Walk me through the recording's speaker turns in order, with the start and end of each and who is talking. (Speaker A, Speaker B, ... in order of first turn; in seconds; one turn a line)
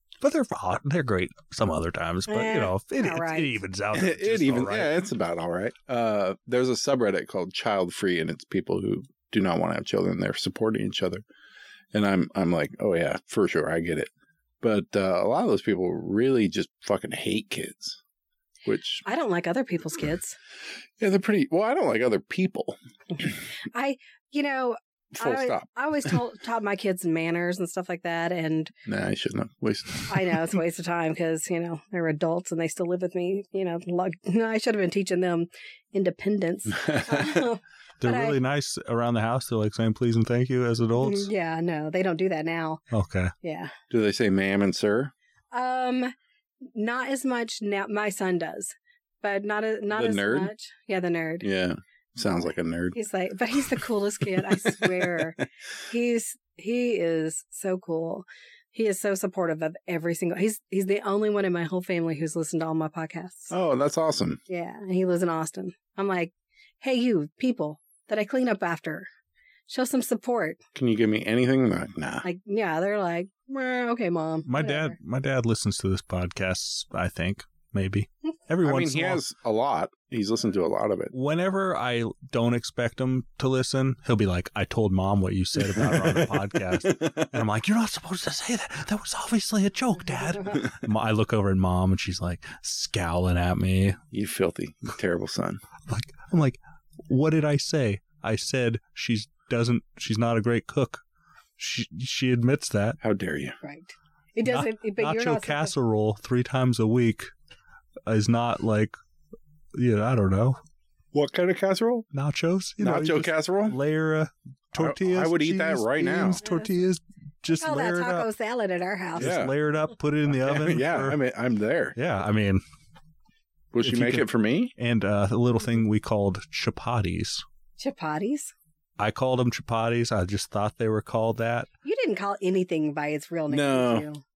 Speaker A: 0.2-5.0
Speaker B: 2.3-3.5
Speaker C: 3.9-11.2
Speaker C: 11.9-14.1
Speaker C: 14.6-18.0
Speaker C: 18.6-19.0
Speaker B: 19.0-20.4
Speaker C: 21.0-23.4
Speaker B: 23.7-28.7
Speaker C: 25.1-25.7
Speaker C: 28.9-30.5
Speaker B: 30.1-38.4
Speaker C: 36.7-37.4
Speaker A: 38.0-41.3
Speaker B: 41.0-42.8
Speaker A: 42.9-43.3
Speaker B: 43.4-43.7
Speaker C: 43.9-45.1
Speaker B: 45.5-46.1
Speaker B: 46.7-51.5
Speaker C: 49.9-50.5
Speaker C: 51.4-53.0
Speaker B: 52.9-63.5
Speaker C: 54.7-55.1
Speaker C: 63.5-64.4
Speaker B: 64.5-69.1
Speaker B: 69.7-70.6
Speaker C: 70.7-72.2
Speaker B: 72.2-74.9
Speaker A: 74.5-79.2
Speaker C: 78.6-81.1
Speaker A: 81.1-94.0
Speaker C: 85.6-87.3
Speaker C: 94.1-95.6
Speaker A: 95.9-101.0
Speaker A: 101.6-103.0
Speaker C: 103.0-103.6
Speaker B: 103.6-105.7
Speaker A: 104.4-107.3
Speaker A: 108.0-108.9
Speaker A: 109.7-110.6
Speaker C: 111.1-112.1
Speaker A: 112.1-118.3
Speaker C: 112.8-113.8
Speaker C: 114.8-116.4
Speaker B: 117.6-119.3
Speaker A: 119.2-121.2
Speaker C: 119.2-119.5
Speaker C: 120.3-122.0
Speaker A: 122.0-122.6
Speaker C: 123.7-124.7
Speaker A: 123.8-127.4
Speaker B: 127.8-128.5
Speaker A: 129.0-131.7
Speaker B: 131.8-134.2
Speaker C: 133.5-134.1